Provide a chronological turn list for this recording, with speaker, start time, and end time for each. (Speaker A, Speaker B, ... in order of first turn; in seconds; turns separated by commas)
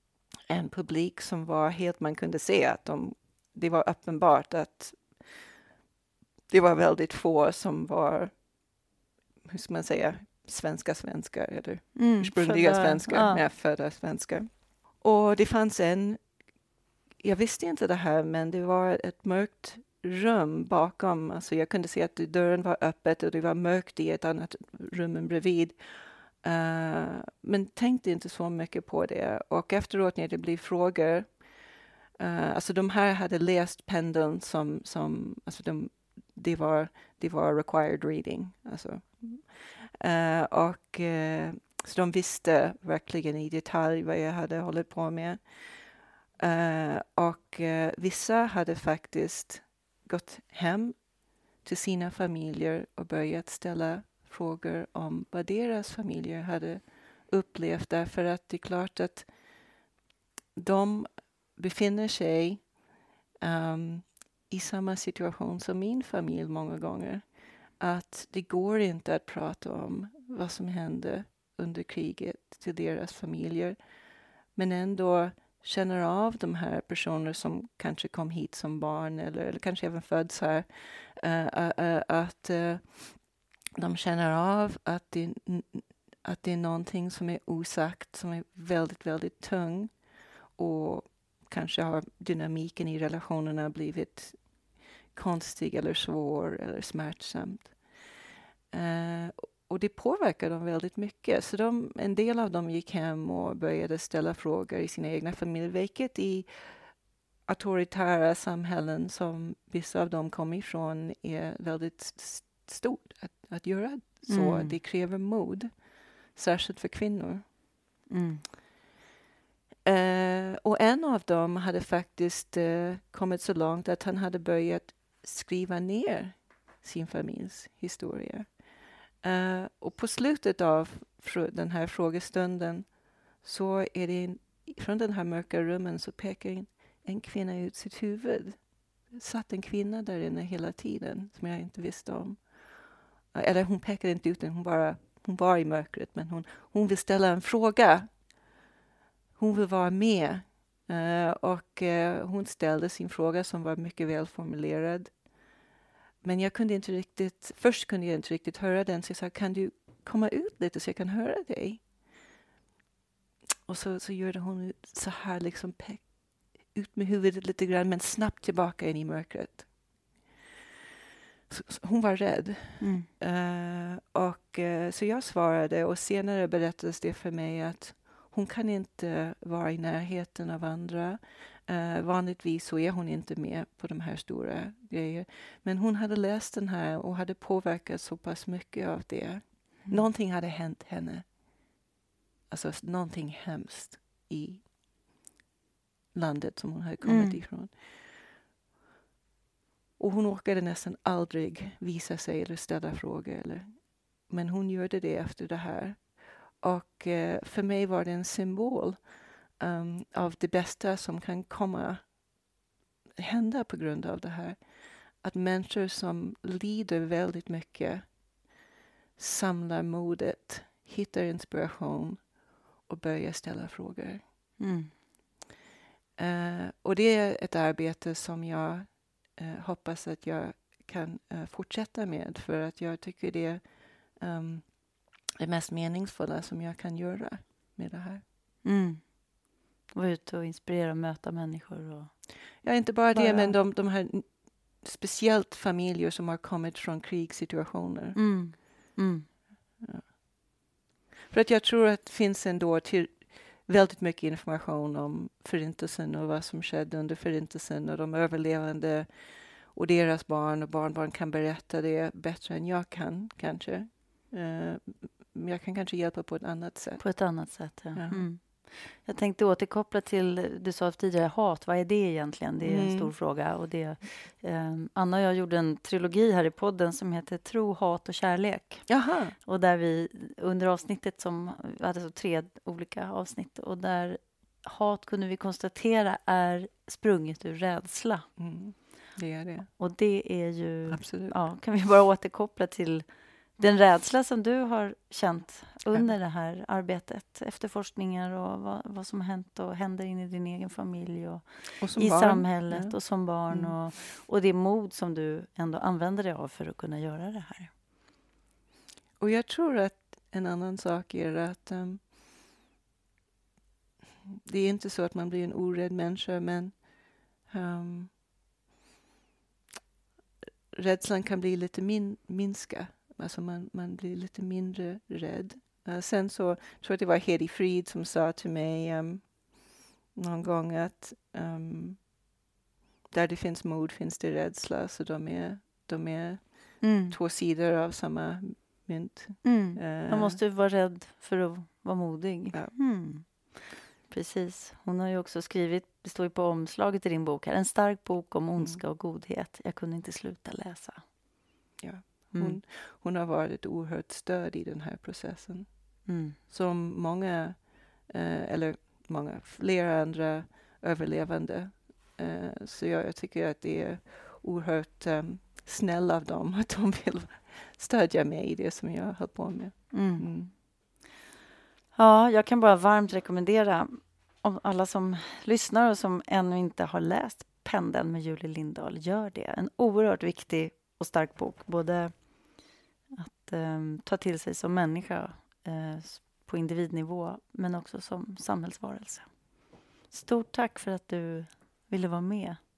Speaker A: 0.5-5.5, Speaker A: 6.5-8.4, Speaker A: 9.4-16.3, Speaker B: 11.9-13.4, Speaker A: 17.2-31.5, Speaker A: 32.2-59.3, Speaker A: 60.6-62.7, Speaker A: 63.4-73.8, Speaker A: 74.5-97.8, Speaker A: 98.7-117.4, Speaker B: 114.3-114.8, Speaker B: 118.1-118.4, Speaker A: 119.8-128.7, Speaker A: 129.2-148.2, Speaker A: 149.4-155.2, Speaker A: 156.2-161.9, Speaker A: 163.7-169.7, Speaker A: 171.5-191.3, Speaker B: 172.8-173.1, Speaker A: 192.5-194.7, Speaker A: 196.1-197.9, Speaker B: 197.0-197.4, Speaker A: 200.0-212.2, Speaker A: 213.2-218.2, Speaker A: 219.2-222.3, Speaker A: 222.9-224.2, Speaker B: 224.6-224.9, Speaker A: 226.2-238.2, Speaker B: 238.6-243.6, Speaker A: 242.6-248.2, Speaker B: 248.2-249.3, Speaker A: 249.8-250.1, Speaker A: 251.3-268.3, Speaker B: 267.0-288.3, Speaker A: 272.6-273.1, Speaker A: 278.9-279.4, Speaker A: 288.4-289.7, Speaker B: 289.8-307.7, Speaker A: 290.9-291.4, Speaker A: 301.8-303.8, Speaker A: 309.2-312.1, Speaker A: 314.5-318.1, Speaker A: 320.7-332.1, Speaker A: 333.1-340.4, Speaker B: 336.8-337.2, Speaker B: 339.4-351.1, Speaker A: 342.5-342.8, Speaker A: 348.6-348.8, Speaker A: 351.8-370.5, Speaker B: 352.3-352.6, Speaker B: 356.1-356.4, Speaker B: 369.9-370.3, Speaker B: 371.9-392.6